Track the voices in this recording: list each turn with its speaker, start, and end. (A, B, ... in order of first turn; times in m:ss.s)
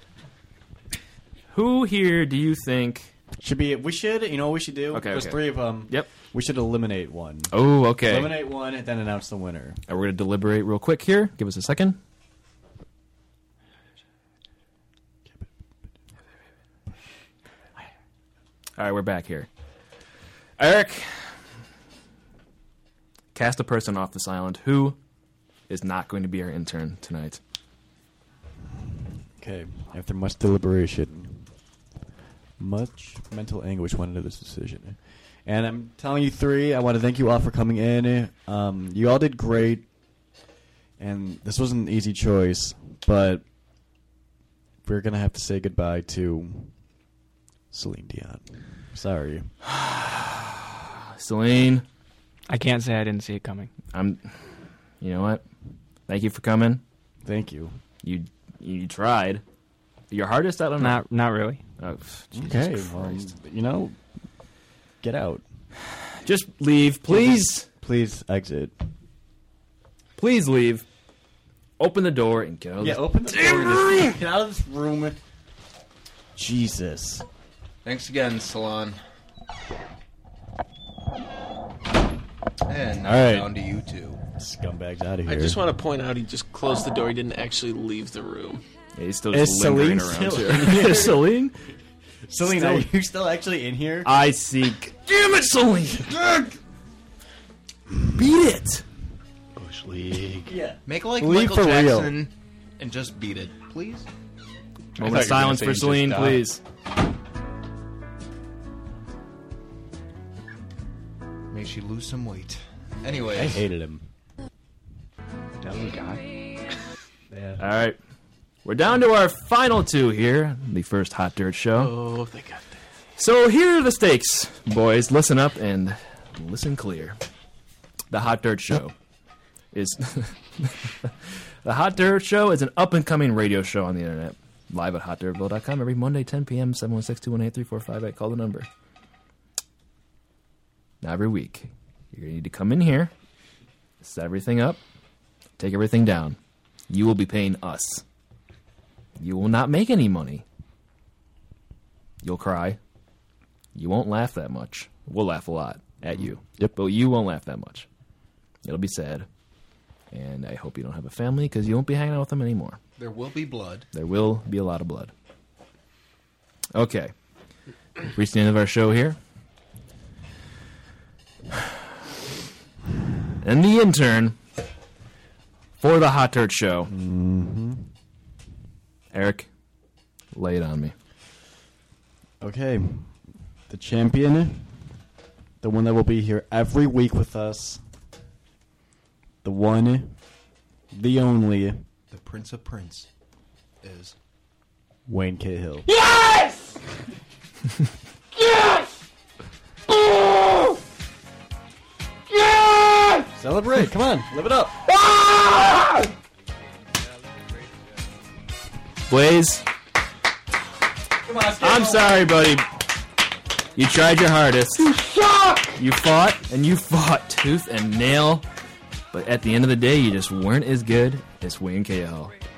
0:01.5-0:03.1 A
0:03.4-0:09.8 B
0:04.9-0:06.1 A
0:07.5-0:08.4 A
0:09.9-0:12.0 A
0:18.8-0:19.5 A
0:20.6-0:21.2 A
0:23.3-0:25.0 A
0:25.7-0:27.4 A
0:29.4-0:31.5 B
0:32.6-0:39.9 B
0:41.0-0:43.4 B
0:44.8-0:46.8 B
0:47.7-0:49.5 B
0:49.7-0:50.4 A
0:51.2-0:51.8 A
0:52.5-0:53.7 C
0:53.9-0:55.4 A
0:56.1-0:56.8 A
0:57.2-0:57.8 B
0:58.0-0:59.4 A
1:00.1-1:01.0 A
1:00.8-1:01.6 C
1:01.8-1:03.3 A
1:02.3-1:04.0 B
1:05.0-1:05.4 B
1:06.2-1:07.6 A
1:07.1-1:08.7 B
1:10.2-1:10.8 A
1:11.8-1:14.1 A
1:12.8-1:15.2 B
1:16.3-1:17.2 B
1:17.8-1:19.0 D
1:22.6-1:24.2 D
1:23.0-1:23.5 B
1:24.4-1:25.6 B
1:25.3-1:28.6 E
1:29.0-1:31.6 A
1:29.3-1:31.3 B
1:32.3-1:34.1 B
1:32.4-1:32.9 A
1:34.0-1:36.2 A
1:38.1-1:38.8 A
1:39.6-1:42.2 B
1:40.8-1:44.1 D
1:45.0-1:46.6 A
1:45.0-1:46.4 B
1:51.5-1:53.6 D
1:53.4-1:54.0 B
1:57.3-1:57.6 B
1:57.6-1:58.0 A
1:58.6-2:01.9 A
2:01.8-2:02.8 E
2:03.2-2:07.2 A
2:08.1-2:08.9 A
2:09.7-2:11.1 A
2:11.6-2:18.7 A
2:21.0-2:23.1 A
2:24.0-2:24.8 A
2:25.6-2:26.4 A
2:26.9-2:28.0 A
2:29.2-2:30.4 A
2:32.2-2:32.8 A
2:33.7-2:37.9 A
2:38.6-2:39.2 A
2:40.1-2:42.8 A
2:43.0-2:43.9 D
2:43.9-2:45.1 A
2:46.7-2:47.1 A
2:48.1-2:49.2 A
2:53.4-2:54.4 A
2:55.8-2:56.9 A
2:56.9-2:57.9 B
2:59.1-2:59.5 A
3:00.3-3:00.9 A
3:02.4-3:04.9 B
3:05.6-3:07.8 B
3:09.4-3:10.2 B
3:10.9-3:11.8 B
3:12.1-3:13.1 D
3:13.8-3:14.2 D
3:15.1-3:15.9 B
3:15.9-3:16.8 F
3:18.3-3:18.9 F
3:19.9-3:20.8 F
3:22.3-3:23.3 F
3:23.4-3:24.8 B
3:24.9-3:26.1 F
3:29.1-3:29.6 A
3:31.2-3:32.2 B
3:31.6-3:32.7 A
3:33.8-3:34.9 A
3:34.9-3:35.8 F
3:35.8-3:38.4 A
3:39.1-3:42.3 A